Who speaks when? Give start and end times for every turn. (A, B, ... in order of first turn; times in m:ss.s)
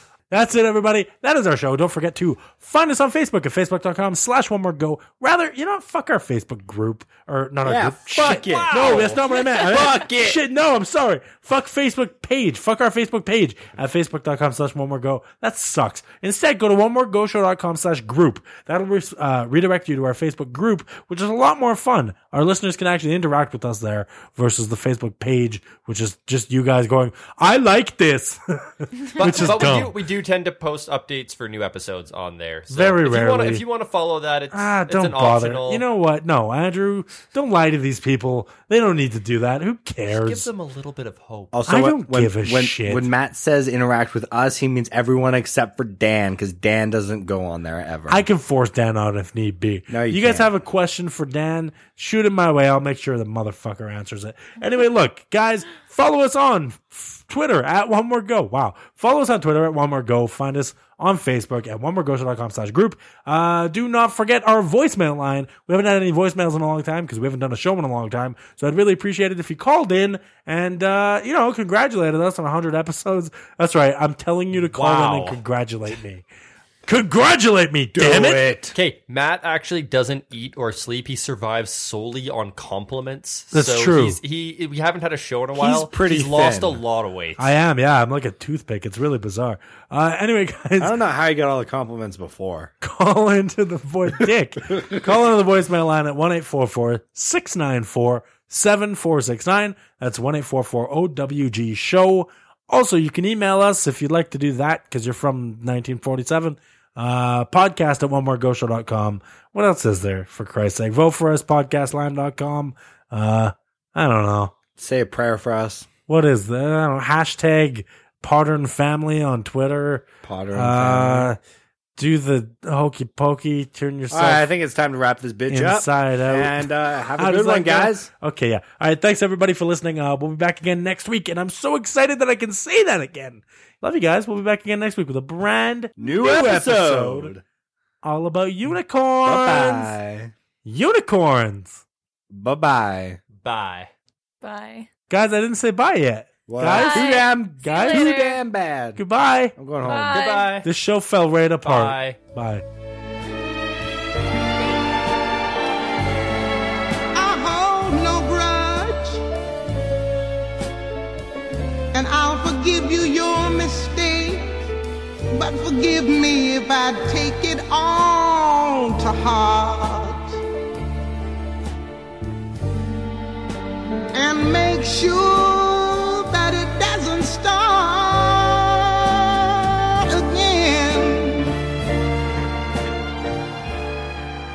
0:00.3-0:30.0 A
0:07.6-0:10.4 B
0:08.2-0:09.3 C
0:29.2-0:35.8 C
0:32.7-0:33.6 A
0:34.5-0:40.5 A
0:40.1-0:41.6 C
0:41.5-0:48.2 B
0:41.7-0:43.1 A
0:48.1-1:16.2 A
0:49.9-0:50.6 B
1:14.7-1:15.4 C
1:16.9-1:18.5 A
1:17.9-1:18.7 B
1:18.7-1:27.5 C
1:23.5-1:24.2 A
1:25.6-1:26.8 B
1:27.4-1:31.0 A
1:30.8-1:32.7 B
1:32.8-1:54.5 A
1:54.8-1:55.9 B
1:56.1-2:01.4 A
2:00.2-2:01.3 B
2:02.0-2:04.5 A
2:04.1-2:08.1 B
2:05.5-2:17.3 A
2:16.0-2:17.4 B
2:18.0-2:20.0 A
2:19.2-2:20.3 B
2:20.6-2:21.8 A
2:22.3-2:23.2 B
2:23.4-2:23.9 C
2:24.4-2:24.9 D
2:25.1-2:28.3 A
2:26.5-2:29.0 B
2:26.7-2:28.4 D
2:29.0-2:29.6 A
2:29.6-2:30.2 B
2:29.8-2:30.6 D
2:29.9-2:30.7 C
2:30.6-2:32.6 A
2:31.6-2:32.2 C
2:37.1-2:39.2 E
2:41.9-2:44.6 E
2:45.3-2:50.4 E
2:54.1-3:01.5 E